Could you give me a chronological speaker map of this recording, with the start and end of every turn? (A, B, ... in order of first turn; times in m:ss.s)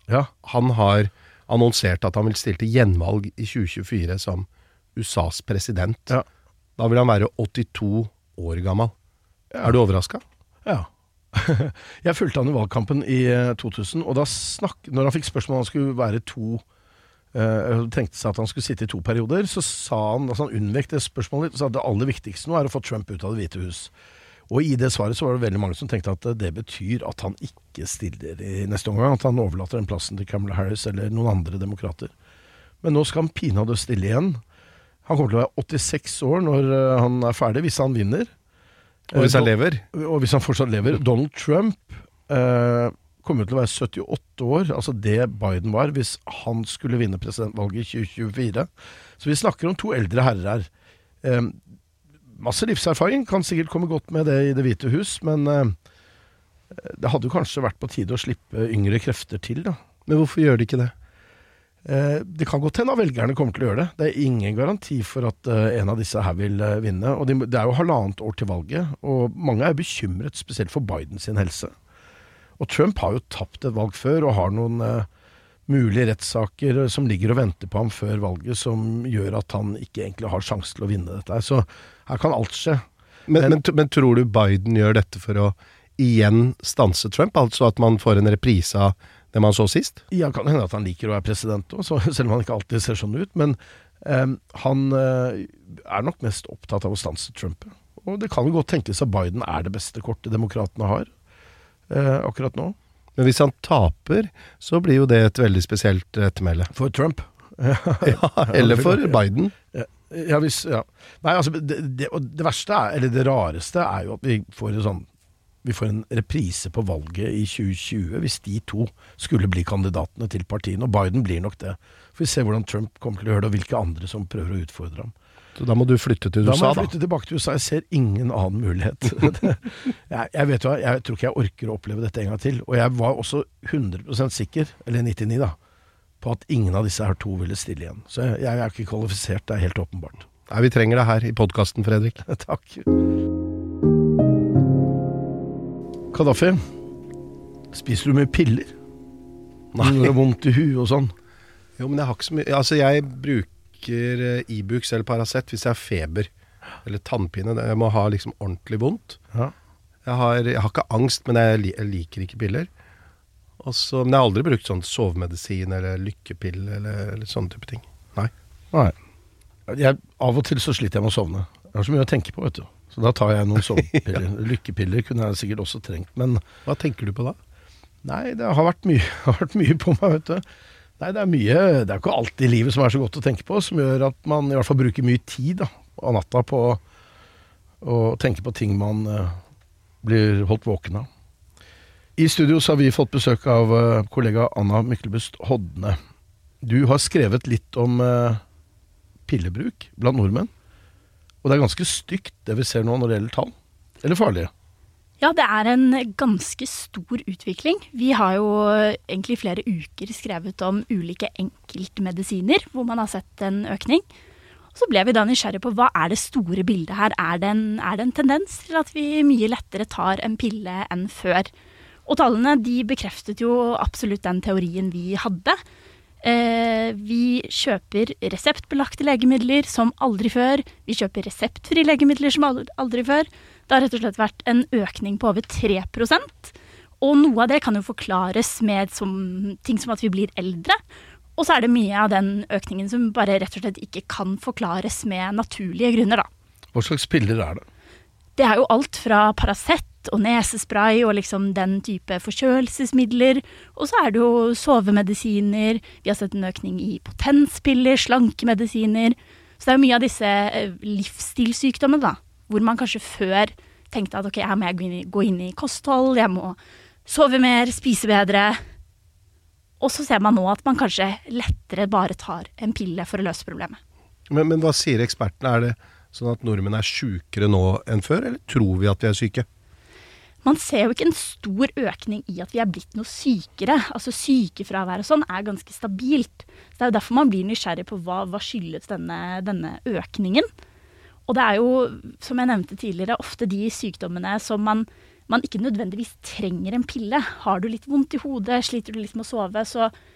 0:00.4-0:06.2 A
0:06.8-0:08.9 A
0:09.6-0:10.2 A
0:10.6-0:16.6 B
0:17.3-0:23.9 B
0:24.5-0:32.1 B
0:32.8-0:34.4 B
0:35.1-0:38.3 B
0:39.1-0:50.7 B
0:39.1-0:39.8 A
0:51.2-0:51.6 B
0:52.4-0:55.8 B
0:56.7-0:59.8 B
1:00.1-1:00.9 A
1:01.8-1:11.7 B
1:12.6-1:15.1 B
1:15.7-1:22.8 B
1:23.3-1:30.0 A
1:30.1-1:41.1 B
1:41.9-1:42.8 B
1:43.2-1:46.7 A
1:46.7-1:49.2 B
1:48.0-1:49.5 A
1:49.7-1:55.1 B
1:55.6-2:05.1 B
2:05.6-2:06.9 A
2:06.4-2:15.6 B
2:16.2-2:20.2 B
2:20.5-2:22.2 A
2:22.2-2:22.8 B
2:26.1-2:26.6 B
2:27.7-2:28.7 B
2:29.7-2:30.1 A
2:29.8-2:31.1 B
2:31.8-2:36.3 A
2:36.8-2:39.2 A
2:40.0-2:42.7 A
2:43.6-2:48.3 A
2:49.7-2:56.4 B
2:56.7-2:57.4 A
2:58.0-3:00.4 B
3:01.0-3:06.8 B
3:07.8-3:09.4 B
3:10.0-3:11.1 B
3:12.2-3:16.0 B
3:16.6-3:18.4 B
3:19.3-3:20.5 B
3:21.4-3:24.5 B
3:25.2-3:34.0 C
3:34.8-3:41.5 C
3:42.1-3:45.6 C
3:46.2-4:00.8 C
4:01.4-4:06.3 C
4:06.7-4:07.6 B
4:08.4-4:28.6 C
4:29.8-4:33.8 C
4:34.3-4:39.5 A
4:40.4-4:50.5 C
4:51.3-4:59.9 C